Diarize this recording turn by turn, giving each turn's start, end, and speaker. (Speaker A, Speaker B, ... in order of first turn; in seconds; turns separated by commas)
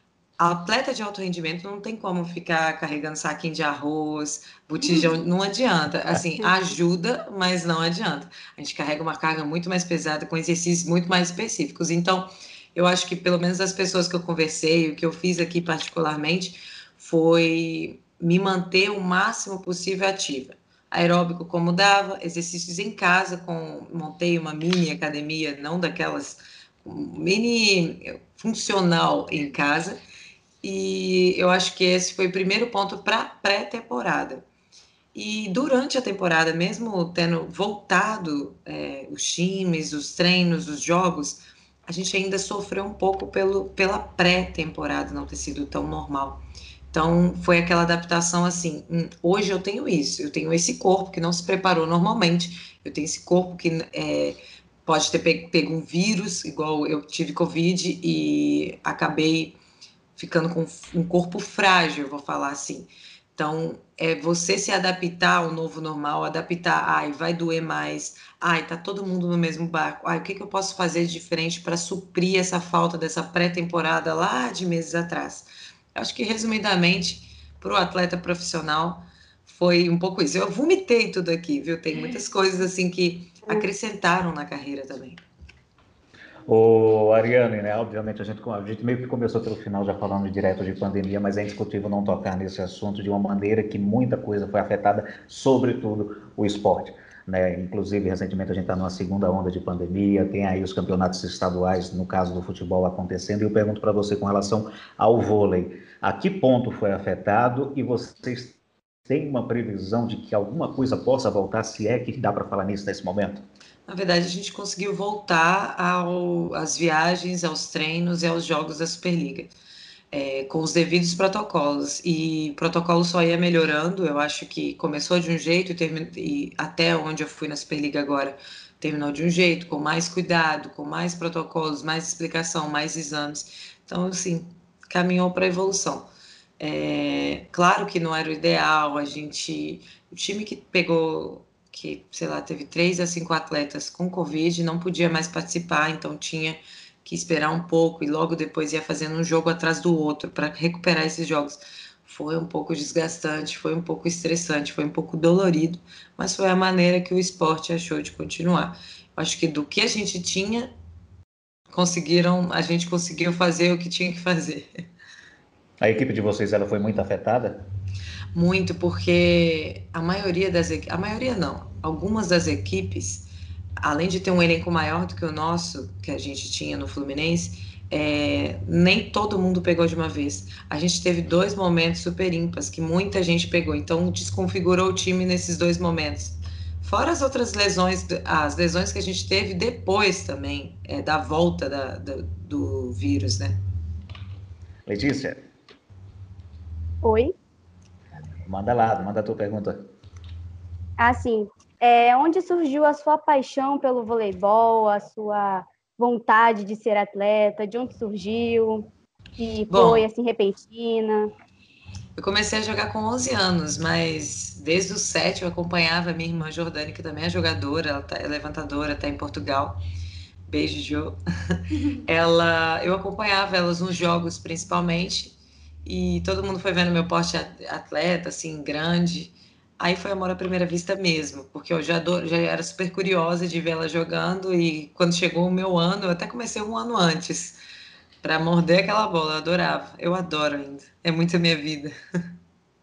Speaker A: 0.4-30.0, Speaker A: 30.6-34.4, Speaker A: 35.1-59.6, Speaker A: 60.1-85.2, Speaker B: 86.5-113.4, Speaker A: 113.9-119.5, Speaker A: 120.1-136.1, Speaker A: 136.6-160.7, Speaker A: 161.7-164.8, Speaker B: 165.8-167.7, Speaker A: 168.3-173.3, Speaker A: 173.8-193.6, Speaker B: 194.9-195.4, Speaker C: 197.0-197.3, Speaker B: 198.4-199.9, Speaker C: 201.0-211.3, Speaker A: 209.7-210.1, Speaker A: 212.2-219.8, Speaker A: 220.5-237.6, Speaker A: 238.2-241.9